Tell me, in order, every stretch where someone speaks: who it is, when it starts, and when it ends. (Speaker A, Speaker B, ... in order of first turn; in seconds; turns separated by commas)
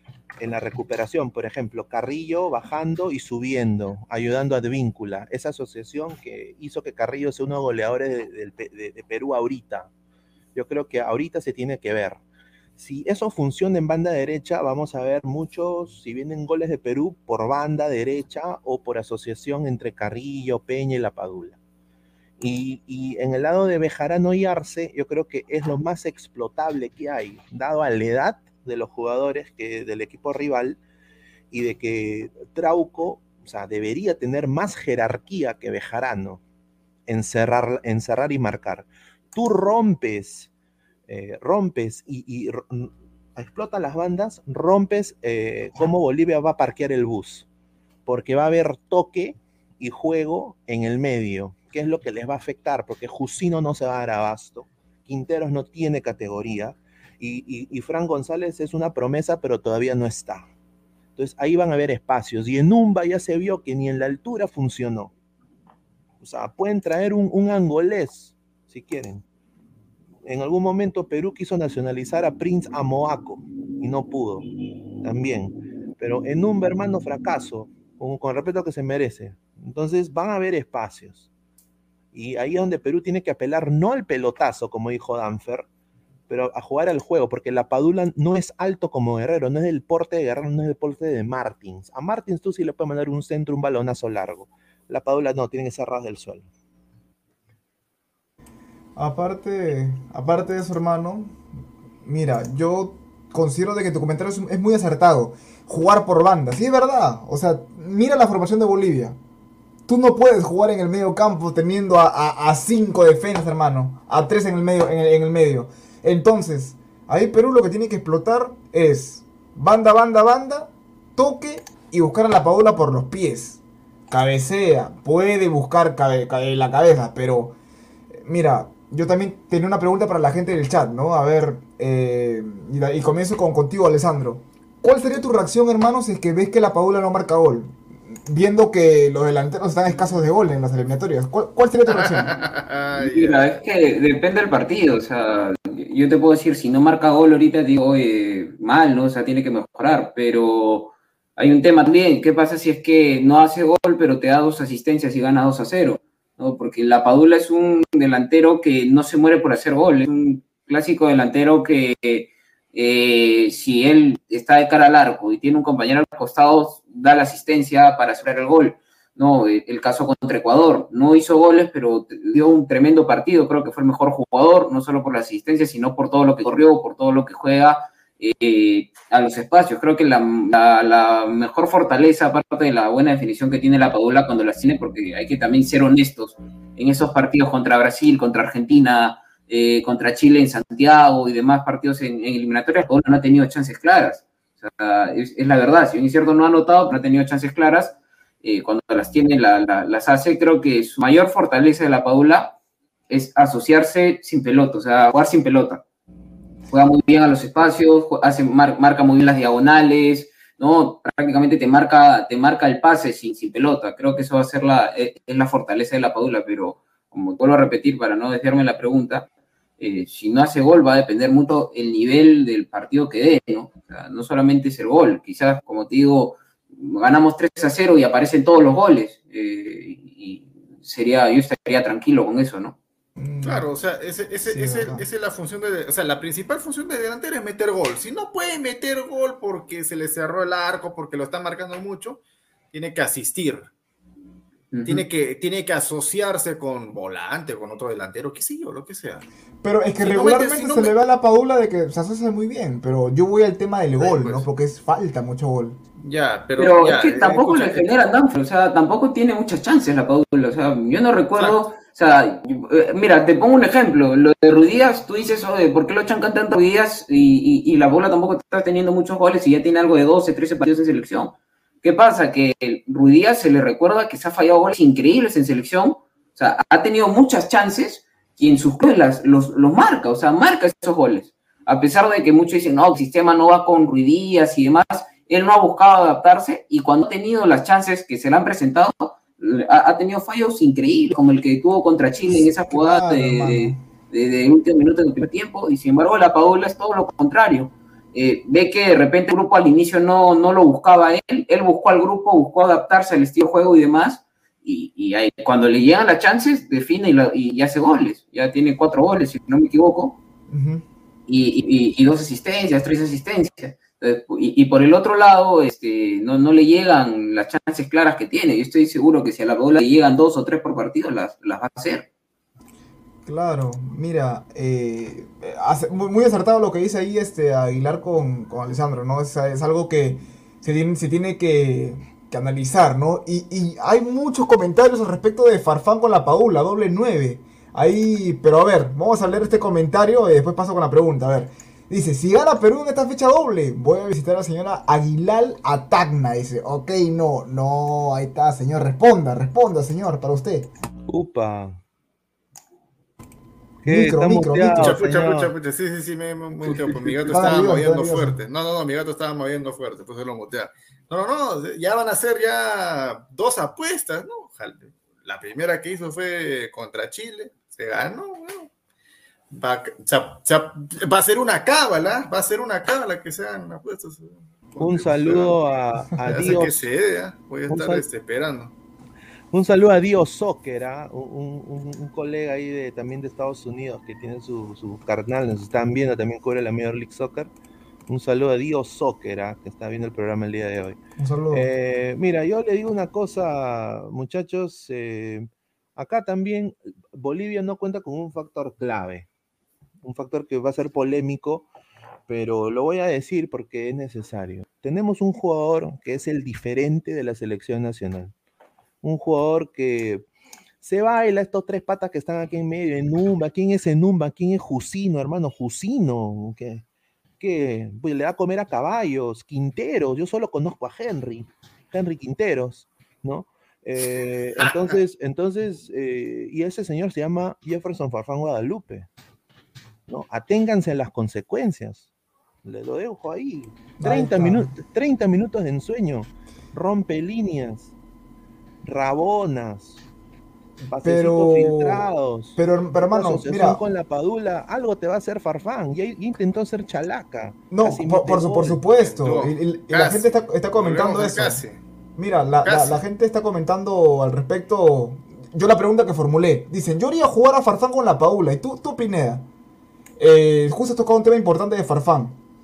Speaker A: 0.4-9.9, Speaker A: 10.5-12.2, Speaker A: 12.8-21.6, Speaker A: 22.4-30.8, Speaker A: 31.5-36.4, Speaker A: 37.1-40.5, Speaker A: 41.1-47.5, Speaker A: 48.0-60.5, Speaker A: 61.1-65.1, Speaker A: 66.2-69.2, Speaker A: 70.2-81.3, Speaker A: 82.1-85.7, Speaker A: 86.3-96.5, Speaker B: 99.0-101.3, Speaker B: 102.0-109.2, Speaker B: 109.9-127.5, Speaker B: 128.1-142.4, Speaker C: 141.9-143.6, Speaker D: 142.9-202.5, Speaker D: 203.1-205.8, Speaker D: 206.7-219.3, Speaker D: 219.8-232.8, Speaker B: 233.2-233.7, Speaker C: 233.4-242.2, Speaker B: 234.4-235.1, Speaker C: 242.7-243.7, Speaker D: 244.7-245.0, Speaker C: 244.8-249.2, Speaker B: 249.6-255.8, Speaker C: 250.0-250.9, Speaker C: 254.0-254.4, Speaker C: 256.0-257.9, Speaker D: 256.6-310.2, Speaker C: 261.4-261.6, Speaker B: 292.3-293.8, Speaker B: 310.5-310.8, Speaker D: 311.3-322.1, Speaker B: 323.2-350.7, Speaker A: 351.1-351.8, Speaker A: 353.8-355.5, Speaker B: 353.9-355.0, Speaker C: 354.6-368.7, Speaker A: 356.7-357.4, Speaker B: 357.3-358.4, Speaker C: 369.5-375.6, Speaker A: 374.8-376.8, Speaker C: 376.2-378.7, Speaker A: 377.7-378.0, Speaker A: 379.5-387.5, Speaker A: 388.1-391.0, Speaker B: 391.2-391.7, Speaker A: 391.5-399.3, Speaker A: 400.0-401.7, Speaker A: 402.3-408.3, Speaker A: 409.0-410.2, Speaker A: 410.8-416.8, Speaker A: 417.4-429.1, Speaker C: 424.6-425.0, Speaker A: 430.1-432.1, Speaker A: 432.6-437.9, Speaker B: 434.0-434.7, Speaker A: 438.8-440.0, Speaker A: 440.9-448.8, Speaker B: 441.0-443.8, Speaker B: 447.7-451.6, Speaker C: 449.0-451.8, Speaker B: 452.2-459.4, Speaker C: 452.6-453.0, Speaker B: 460.2-462.4